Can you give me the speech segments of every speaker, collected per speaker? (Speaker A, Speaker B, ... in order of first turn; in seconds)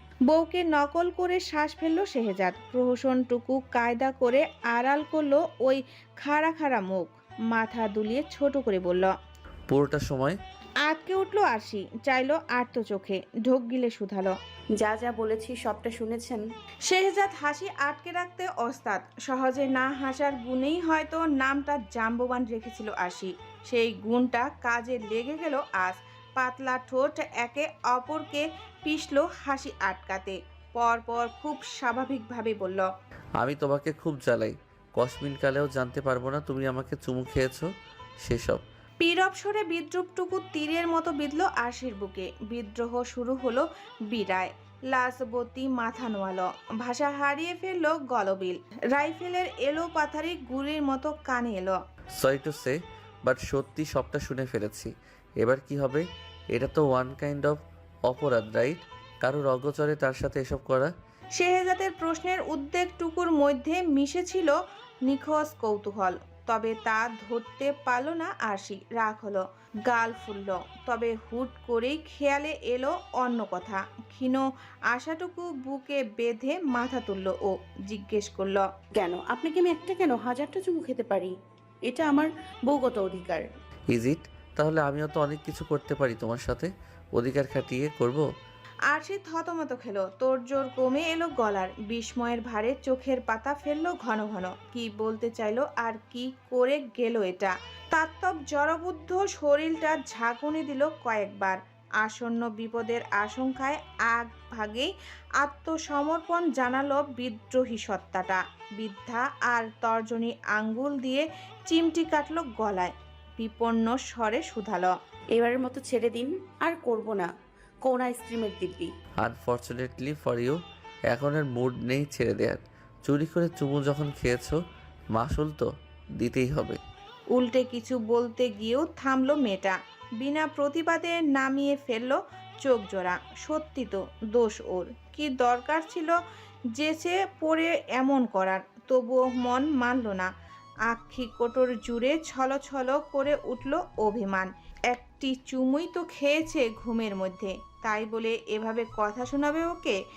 Speaker A: 0.3-9.1, 10.8-14.3, 16.9-32.9, 39.0-51.8, 61.3-64.5, 65.0-78.7, 88.9-114.9, 127.3-136.1, 136.8-140.3, 140.9-150.0
Speaker B: 9.7-10.4, 33.4-37.7, 38.2-38.6, 52.2-60.9, 83.9-88.3, 119.2-120.6, 121.1-124.6, 125.1-126.8
Speaker C: 14.8-16.4, 79.0-81.3, 81.8-83.4, 115.3-117.3, 117.8-118.9